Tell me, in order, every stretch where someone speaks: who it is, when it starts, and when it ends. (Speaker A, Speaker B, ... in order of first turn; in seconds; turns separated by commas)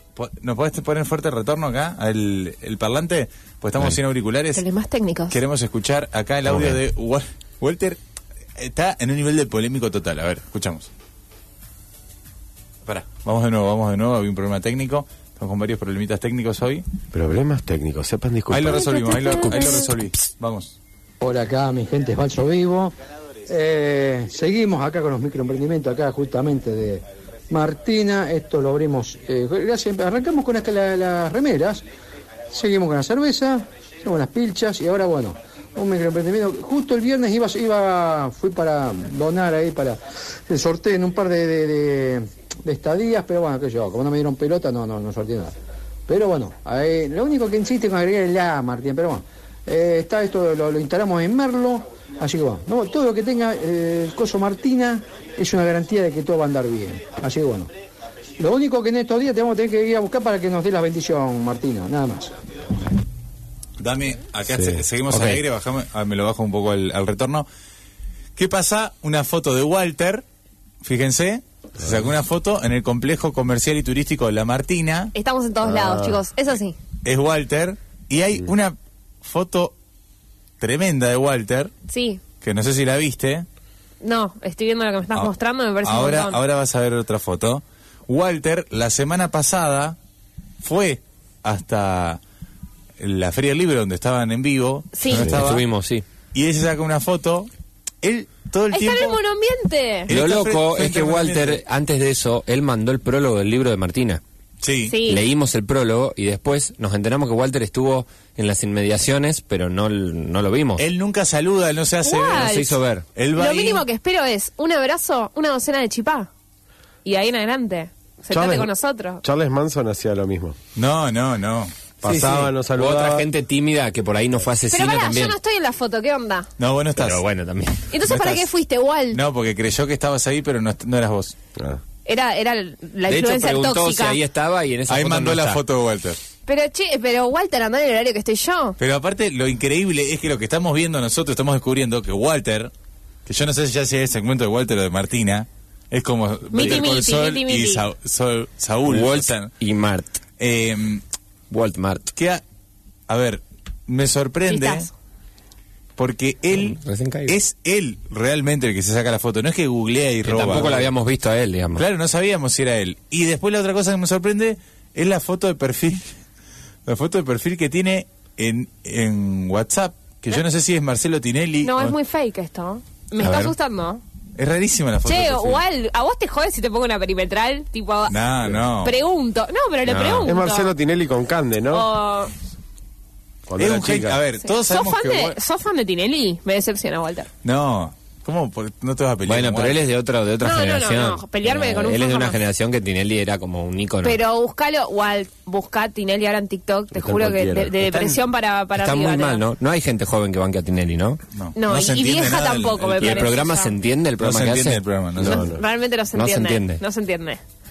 Speaker A: 0.1-4.6, Speaker B: 4.5-5.3, Speaker A: 5.3-8.0, Speaker C: 6.5-6.8, Speaker A: 8.6-10.9, Speaker A: 12.8-16.8, Speaker D: 17.1-19.8, Speaker A: 18.5-20.8, Speaker B: 19.3-19.8, Speaker E: 21.2-22.9, Speaker E: 23.5-31.8, Speaker E: 32.5-45.5, Speaker E: 46.1-57.7, Speaker E: 58.4-62.3, Speaker A: 63.8-67.5, Speaker D: 64.5-64.8, Speaker C: 65.1-65.4, Speaker A: 68.3-70.2, Speaker A: 70.8-75.1, Speaker B: 75.1-76.8, Speaker D: 75.6-76.2, Speaker A: 77.0-79.7, Speaker A: 80.6-81.7, Speaker B: 81.9-82.2, Speaker A: 82.4-83.4, Speaker B: 84.0-86.4, Speaker A: 85.8-90.0, Speaker A: 90.6-92.2, Speaker A: 93.0-95.6, Speaker B: 94.9-95.3, Speaker C: 95.2-96.0, Speaker A: 96.3-97.5, Speaker A: 98.0-99.2, Speaker B: 98.7-100.1, Speaker A: 100.1-101.6, Speaker C: 100.1-104.2, Speaker A: 104.6-105.0, Speaker B: 104.9-105.2, Speaker C: 105.0-110.8, Speaker A: 110.8-112.6, Speaker B: 112.0-112.8, Speaker C: 112.3-113.0, Speaker A: 113.1-113.8, Speaker B: 113.3-116.3, Speaker B: 117.0-119.2, Speaker D: 118.3-118.7, Speaker D: 119.2-120.5, Speaker A: 120.8-122.3, Speaker D: 122.0-123.3, Speaker C: 122.0-125.3, Speaker B: 124.7-126.5, Speaker A: 126.6-127.2, Speaker C: 127.0-128.3, Speaker B: 127.9-129.2, Speaker A: 128.0-128.4, Speaker A: 129.1-131.3, Speaker D: 131.6-131.8, Speaker B: 132.0-134.2, Speaker C: 133.1-135.6, Speaker A: 134.9-136.2, Speaker B: 136.4-138.8, Speaker A: 138.8-142.7, Speaker A: 143.2-149.5, Speaker B: 146.5-147.8, Speaker C: 148.9-150.2, Speaker A: 150.4-151.0, Speaker C: 151.5-152.1, Speaker A: 152.2-152.4, Speaker A: 153.1-154.9, Speaker B: 154.5-154.9, Speaker A: 156.0-160.9, Speaker C: 156.5-157.3, Speaker C: 160.2-161.8, Speaker A: 161.8-166.1, Speaker A: 166.8-172.0, Speaker B: 171.6-174.0, Speaker C: 173.2-173.5, Speaker A: 174.3-175.6, Speaker B: 175.0-178.2, Speaker A: 178.1-179.0, Speaker B: 178.8-180.7, Speaker C: 179.9-180.3, Speaker D: 180.2-181.9, Speaker B: 181.7-182.3, Speaker D: 183.5-184.2, Speaker A: 183.6-185.3, Speaker B: 184.4-187.3, Speaker A: 187.4-189.8, Speaker C: 189.2-194.2, Speaker B: 190.4-192.4, Speaker B: 194.0-199.4, Speaker D: 196.9-198.2, Speaker C: 198.7-201.2, Speaker A: 201.3-203.4, Speaker B: 201.5-203.7, Speaker C: 203.0-204.8, Speaker A: 204.2-205.4, Speaker D: 205.2-205.6, Speaker B: 205.2-207.4, Speaker C: 206.1-206.8